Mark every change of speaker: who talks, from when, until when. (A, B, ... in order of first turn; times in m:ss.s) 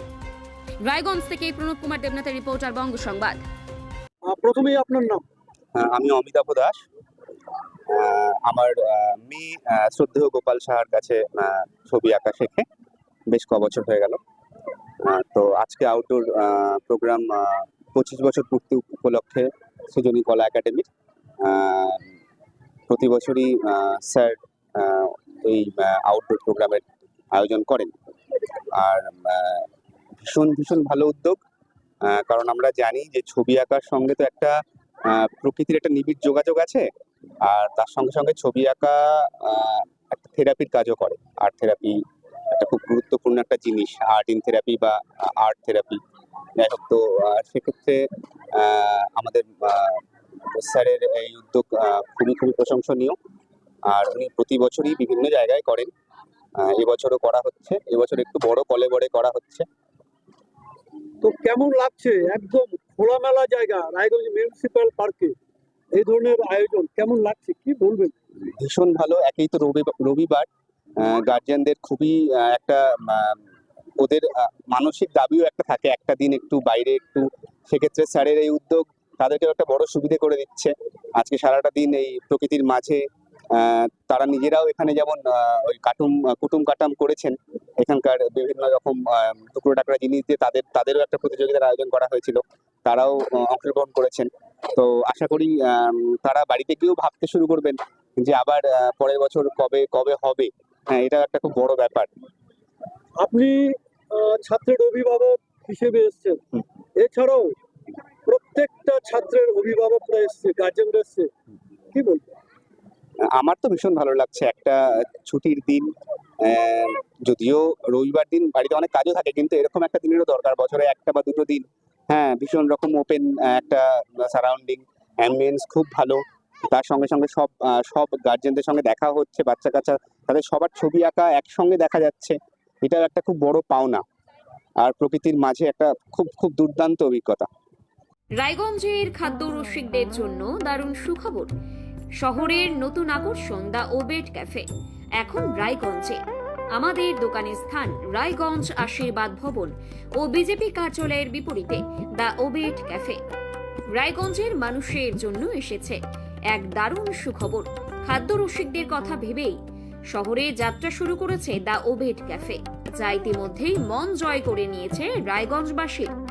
0:00.8-0:03.4 A
0:04.2-0:05.2 B
0:05.7-0:06.8 C
0:07.9-0:12.6 C
0:13.3-0:14.2 C
0:15.0-0:20.9 C
0:21.4-0:22.1 C
0:22.9-0:27.9 C
0:28.7-0:29.6 C
0:30.2-0:31.4 C
0:32.0-0:36.9 C
0:37.4-0:46.0 C
0:46.6-0:53.2 C
0:53.8-0:55.9 C
0:56.6-0:59.7 C
1:01.2-1:05.3 B
1:05.9-1:08.1 B
1:08.4-1:10.5 C
1:11.0-1:13.4 C
1:14.0-1:42.1 C
1:43.2-1:46.4 B
1:47.0-1:47.5 B
1:48.3-1:51.3 B
1:51.9-1:52.4 B
1:53.3-1:55.9 C
1:56.4-2:14.0 C
2:14.8-2:17.5 C
2:18.4-2:21.5 A
2:22.2-2:24.6 A
2:25.2-2:26.2 A
2:26.7-2:33.2 A
2:33.9-2:36.0 A
2:36.5-2:39.6 A
2:40.1-2:46.1 A